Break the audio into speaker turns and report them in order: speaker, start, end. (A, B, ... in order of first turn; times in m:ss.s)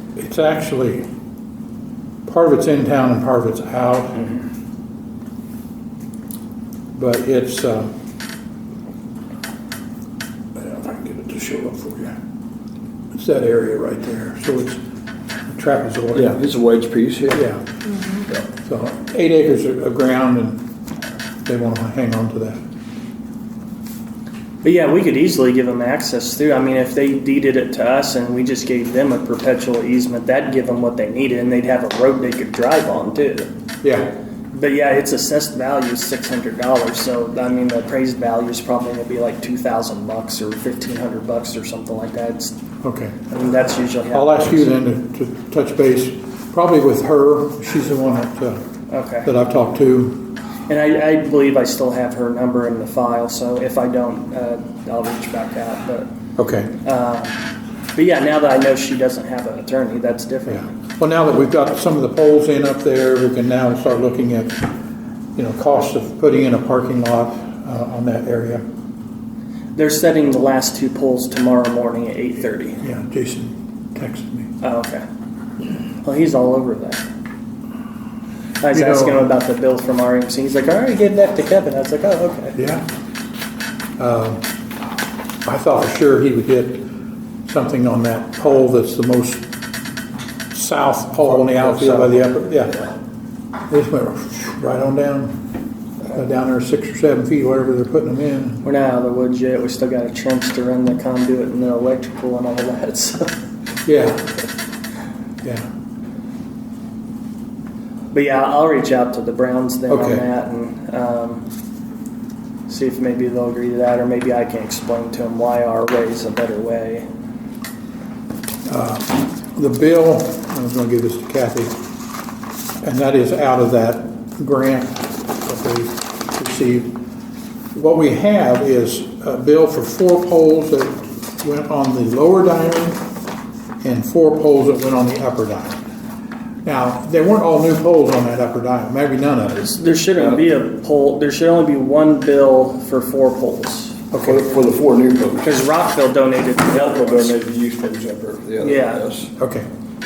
0:00.2-0:01.0 A
0:02.2-0:04.3 A
0:07.0-0:07.9 A
0:10.6-0:12.2 A
0:13.1-0:14.8 A
0:15.5-0:16.4 A
0:16.1-0:17.5 B
0:17.3-0:17.7 A
0:18.3-0:20.6 A
0:21.4-0:22.6 A
0:24.6-0:33.5 C
0:33.8-0:34.1 A
0:34.5-0:42.6 C
0:42.8-0:43.2 A
0:43.3-0:44.7 C
0:44.1-0:48.6 A
0:48.9-0:49.3 C
0:49.2-0:50.3 A
0:50.7-0:56.1 C
0:56.4-0:56.7 A
0:56.8-0:57.4 C
0:57.9-1:00.7 C
1:00.5-1:04.8 A
1:05.4-1:08.6 A
1:09.7-1:12.8 C
1:12.8-1:14.5 A
1:14.6-1:15.0 C
1:16.0-1:17.1 C
1:18.6-1:22.6 C
1:18.7-1:19.2 A
1:22.6-1:22.8 A
1:24.0-1:24.5 A
1:25.4-1:26.9 A
1:27.4-1:29.4 A
1:30.5-1:32.9 A
1:31.5-1:32.1 B
1:33.7-1:35.4 A
1:36.1-1:38.6 A
1:38.6-1:43.3 C
1:43.8-1:44.3 A
1:45.4-1:45.7 A
1:48.1-1:51.4 C
1:49.9-1:50.2 A
1:52.7-1:57.0 C
1:58.6-2:01.7 A
2:02.8-2:07.0 A
2:07.7-2:13.0 A
2:13.8-2:15.8 A
2:16.6-2:19.8 A
2:19.7-2:24.0 C
2:24.1-2:24.4 A
2:24.2-2:25.5 B
2:25.4-2:27.3 C
2:26.7-2:29.3 B
2:28.6-2:29.0 C
2:29.4-2:29.7 A